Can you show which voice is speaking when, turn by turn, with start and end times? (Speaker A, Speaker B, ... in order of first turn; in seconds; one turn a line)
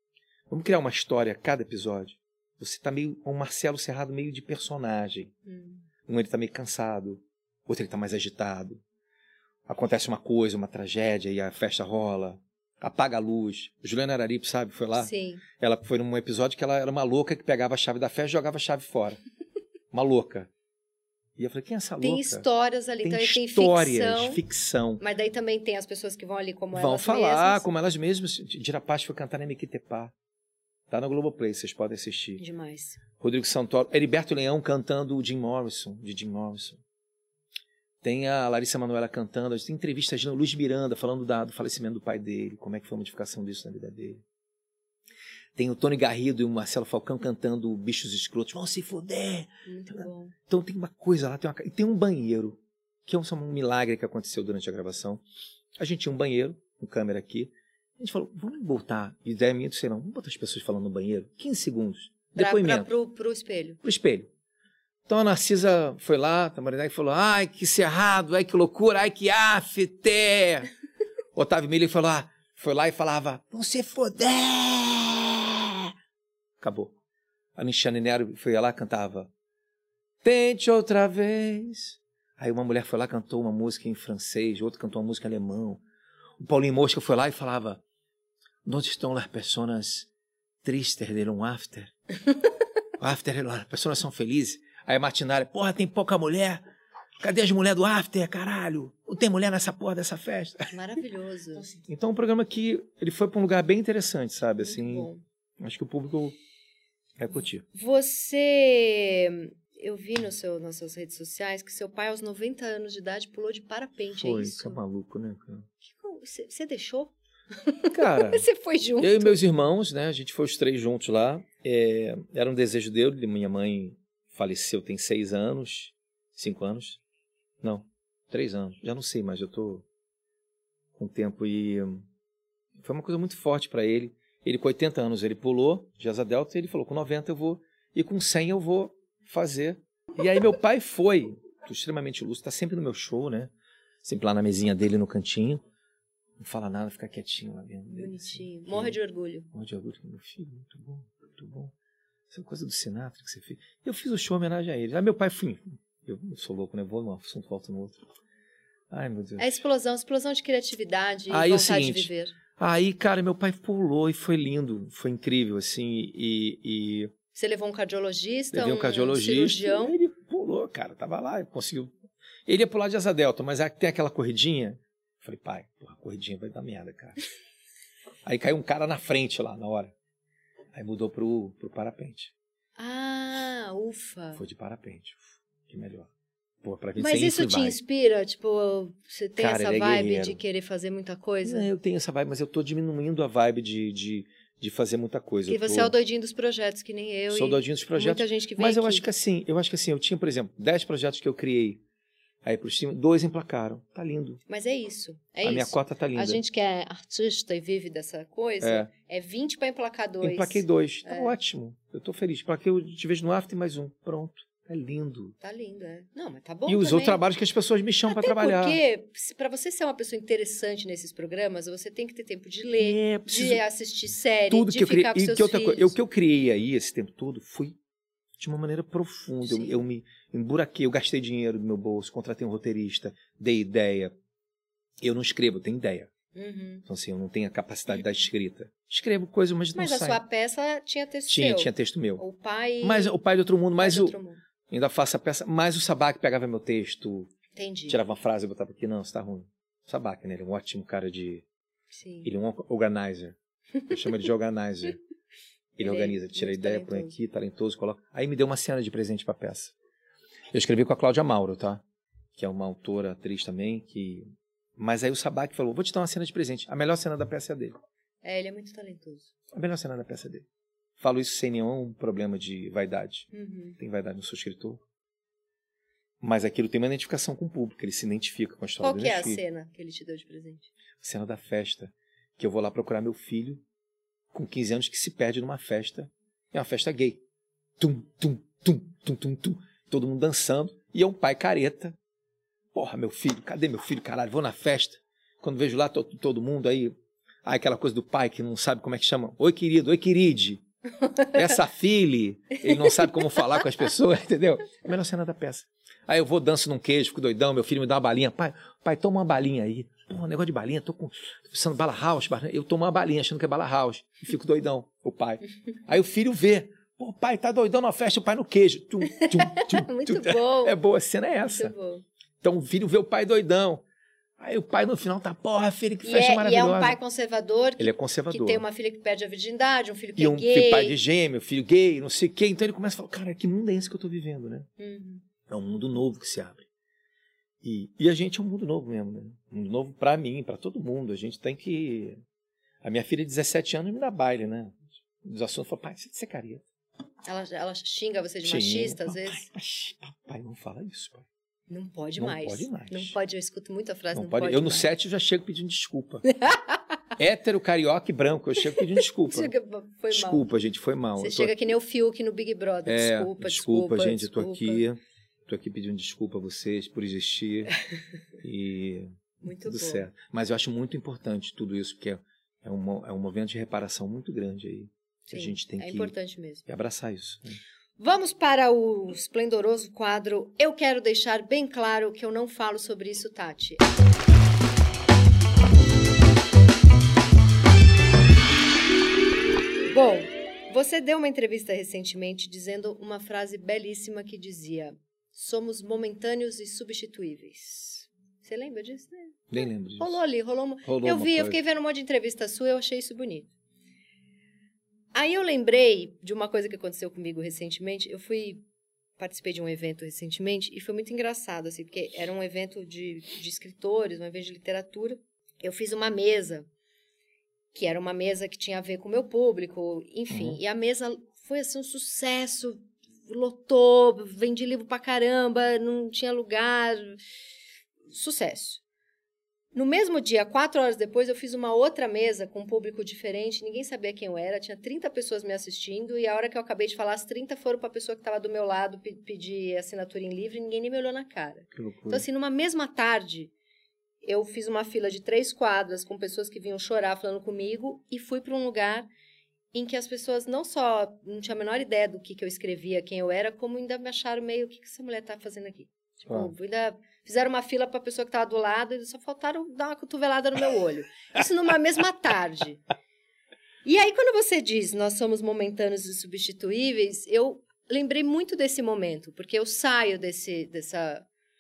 Speaker A: 0.5-5.3
Speaker B: 5.5-5.8
Speaker A: 6.1-8.8
Speaker A: 9.7-19.2
Speaker B: 14.9-15.4
Speaker A: 19.9-20.5
Speaker A: 21.4-22.5
Speaker B: 22.0-24.4
Speaker A: 23.0-25.0
Speaker B: 25.0-27.7
Speaker A: 26.7-30.1
Speaker A: 30.9-32.4
Speaker B: 32.4-33.0
Speaker A: 33.2-36.8
Speaker A: 38.0-44.2
Speaker A: 45.5-55.2
Speaker B: 49.6-50.3
Speaker A: 55.8-62.9
Speaker B: 62.3-63.8
Speaker A: 63.8-64.3
Speaker A: 65.1-70.7
Speaker A: 71.3-75.9
Speaker A: 76.6-76.9
Speaker A: 77.5-79.3
Speaker A: 80.2-85.8
Speaker A: 86.4-87.8
Speaker A: 88.6-90.1
Speaker A: 90.6-91.9
Speaker A: 93.0-96.6
Speaker A: 97.2-100.7
Speaker B: 100.7-101.7
Speaker A: 101.6-106.3
Speaker B: 104.6-105.2
Speaker A: 107.2-107.6
Speaker B: 107.7-114.8
Speaker A: 114.2-115.7
Speaker B: 115.8-119.4
Speaker A: 117.9-118.5
Speaker A: 119.0-127.0
Speaker A: 127.6-129.8
Speaker A: 131.0-132.0
Speaker A: 132.8-143.5
Speaker A: 144.0-145.6
Speaker A: 146.4-149.0
Speaker B: 147.9-149.5
Speaker A: 149.5-151.7
Speaker A: 152.3-158.0
Speaker A: 158.9-159.6
Speaker B: 159.4-162.3
Speaker A: 161.3-167.1
Speaker B: 167.3-169.9
Speaker A: 168.5-171.9
Speaker A: 172.5-177.2
Speaker A: 178.2-179.9
Speaker A: 180.7-182.3
Speaker B: 182.8-184.4
Speaker A: 184.3-186.1
Speaker A: 186.6-187.8
Speaker B: 187.0-191.7
Speaker A: 189.4-190.4
Speaker A: 191.4-195.9
Speaker B: 195.5-199.1
Speaker A: 197.3-201.8
Speaker A: 202.4-204.4
Speaker B: 204.5-211.3
Speaker A: 205.4-206.4
Speaker A: 208.6-208.9
Speaker A: 210.2-215.3
Speaker B: 215.4-217.2
Speaker A: 216.7-218.8
Speaker B: 218.1-225.9
Speaker A: 222.8-223.6
Speaker A: 224.5-227.8
Speaker A: 228.4-234.1
Speaker B: 229.4-229.8
Speaker A: 235.0-236.1
Speaker B: 236.3-236.8
Speaker A: 236.9-240.2
Speaker B: 239.7-243.2
Speaker A: 241.3-242.2
Speaker A: 242.8-244.2
Speaker B: 243.8-244.4
Speaker A: 244.7-247.3
Speaker B: 247.5-248.0
Speaker A: 247.9-251.4
Speaker B: 251.9-252.3
Speaker A: 252.2-253.4
Speaker A: 253.9-255.0
Speaker A: 255.8-259.7
Speaker B: 255.8-257.1
Speaker A: 260.5-261.8
Speaker A: 262.4-264.2
Speaker A: 264.8-267.8
Speaker B: 268.2-269.3
Speaker A: 269.5-270.4
Speaker A: 271.0-273.3
Speaker B: 273.3-273.8
Speaker A: 273.8-274.8
Speaker A: 276.2-279.4
Speaker B: 278.8-280.7
Speaker A: 281.0-283.6
Speaker A: 284.3-287.2
Speaker A: 287.8-291.9
Speaker A: 292.7-300.6
Speaker A: 301.3-321.7
Speaker B: 302.8-303.1
Speaker B: 319.1-320.8
Speaker B: 321.4-322.0
Speaker A: 322.4-323.8
Speaker A: 324.4-327.0
Speaker B: 326.0-331.0
Speaker A: 327.8-328.6
Speaker A: 330.2-334.7
Speaker B: 334.8-335.2
Speaker A: 335.5-336.7
Speaker A: 337.6-342.2
Speaker A: 342.8-346.6
Speaker B: 347.2-349.4
Speaker A: 348.4-351.2
Speaker B: 351.7-354.9
Speaker A: 352.2-353.1
Speaker A: 354.1-356.2
Speaker B: 356.3-356.8
Speaker A: 357.2-359.5
Speaker B: 359.0-360.4
Speaker A: 360.1-361.5
Speaker B: 361.2-364.8
Speaker A: 362.9-367.7
Speaker A: 368.4-376.1
Speaker B: 369.4-370.1
Speaker B: 375.3-376.6
Speaker A: 376.6-377.6
Speaker B: 378.0-383.8
Speaker B: 389.9-403.5
Speaker A: 399.5-400.2
Speaker A: 400.8-401.6
Speaker B: 405.1-408.6
Speaker B: 409.2-416.7
Speaker B: 417.7-427.1
Speaker A: 420.3-420.6
Speaker B: 428.1-428.8
Speaker B: 429.7-443.5
Speaker A: 441.7-442.2
Speaker B: 444.2-449.1
Speaker B: 449.7-462.8
Speaker A: 456.3-456.5
Speaker B: 463.8-471.3